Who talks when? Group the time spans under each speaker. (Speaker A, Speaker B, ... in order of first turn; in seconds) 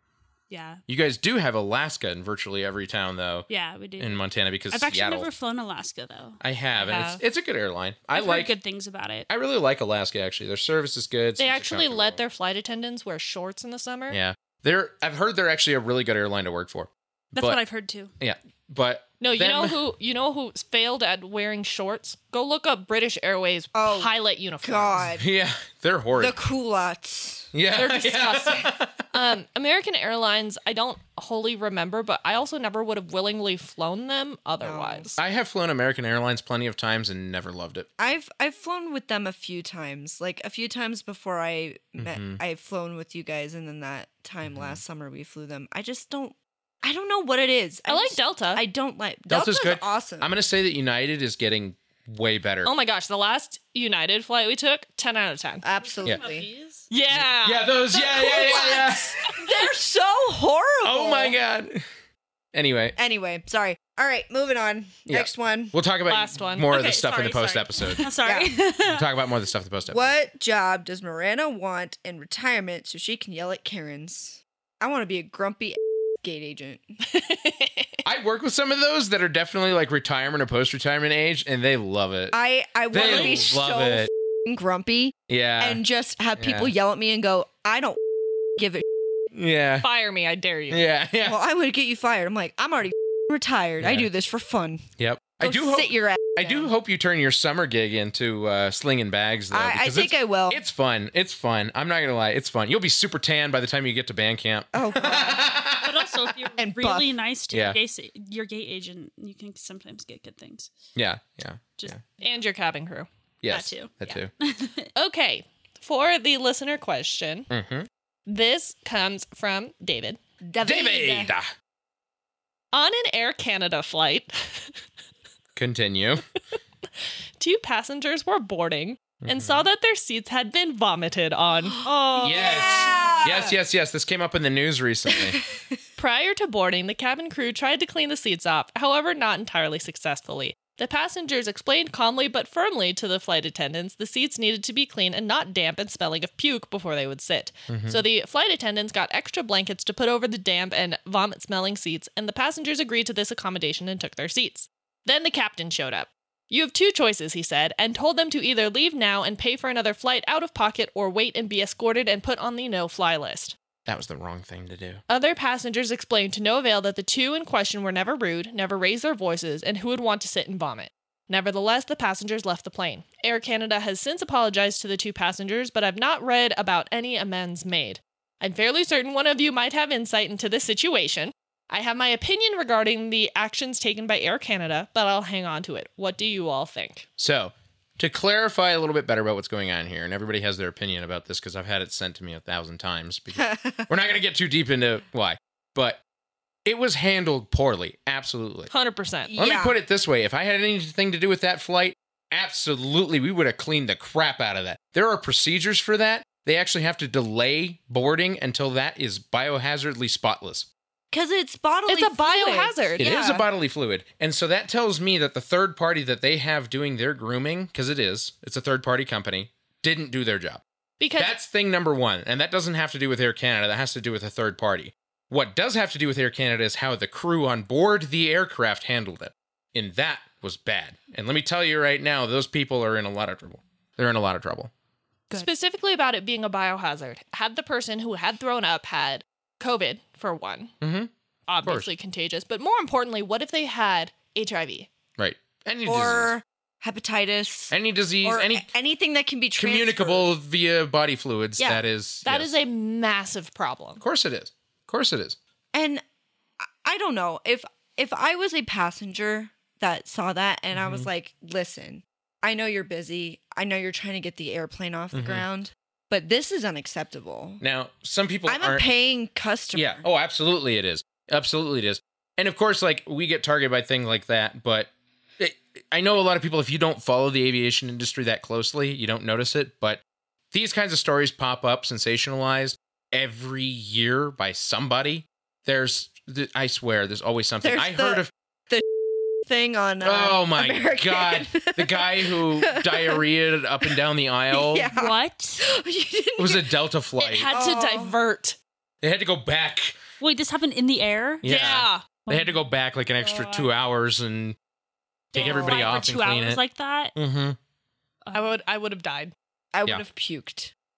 Speaker A: 0.5-0.8, 3.5-7.1, 8.1-9.3, 17.4-18.1, 55.8-56.9, 67.9-69.1, 105.8-110.7, 111.8-112.3, 113.5-114.9, 131.8-133.1, 294.9-295.6, 300.2-301.7, 302.3-302.6, 303.2-303.7, 305.3-307.1, 308.2-308.5
Speaker B: 0.9-5.3, 6.4-8.5, 9.3-12.2, 14.1-17.6, 18.2-19.8, 25.1-26.4, 27.5-29.1, 35.2-37.9, 42.0-42.4, 44.5-44.8, 49.3-52.7, 57.1-59.2, 60.8-61.8, 62.5-63.0, 65.1-68.1, 68.9-70.1, 78.0-82.4, 82.9-84.1, 85.3-85.8, 86.4-86.7, 89.3-89.9, 90.7-91.4, 93.8-94.1, 95.0-106.2, 107.5-107.8, 111.0-112.0, 113.4-114.3, 117.5-117.9, 120.6-121.5, 125.6-126.2, 129.2-129.7, 132.2-135.4, 147.7-148.0, 163.9-165.0, 187.2-196.0, 196.7-198.7, 199.4-210.7, 213.0-220.6, 221.2-234.7, 240.8-241.1, 241.6-241.9, 245.2-246.3, 247.7-248.7, 249.6-252.6, 254.0-255.4, 260.7-261.1, 265.1-265.4, 267.6-268.9, 269.7-280.0, 280.5-288.3, 290.0-294.9, 296.4-297.5, 299.0-300.0, 301.4-304.6, 305.3-306.6, 307.1-307.6
Speaker C: 6.8-7.2, 11.4-14.2, 19.2-25.1, 27.7-35.2, 47.9-48.6, 52.6-55.6, 56.9-59.7, 66.1-67.8, 77.1-77.9, 83.0-83.4, 89.8-90.8, 112.2-113.1, 115.0-117.5, 118.3-120.2, 122.7-124.7, 127.4-132.7, 136.0-163.6, 165.1-187.1, 198.7-199.3, 211.9-213.0, 221.0-221.4, 235.3-240.7, 241.5-244.9, 252.2-254.0, 297.2-298.6, 301.4-302.1, 308.3-309.3
Speaker D: 23.7-25.2, 26.2-27.5, 34.6-35.1, 38.0-50.3, 55.6-56.5, 58.0-61.4, 63.0-65.7, 68.2-68.5, 69.9-76.8, 82.3-88.0, 88.6-88.8, 91.2-94.9, 95.4-96.7, 99.5-100.6, 104.7-105.6, 106.6-107.1, 120.4-121.3, 131.8-133.6, 135.1-135.6, 193.4-193.9, 199.3-199.8, 211.1-213.5, 245.9-250.3, 255.7-256.0, 256.6-267.6, 268.5-270.0, 287.6-288.9, 289.4-293.2, 294.5-296.8, 297.5-298.1, 305.4-306.0, 309.7-310.7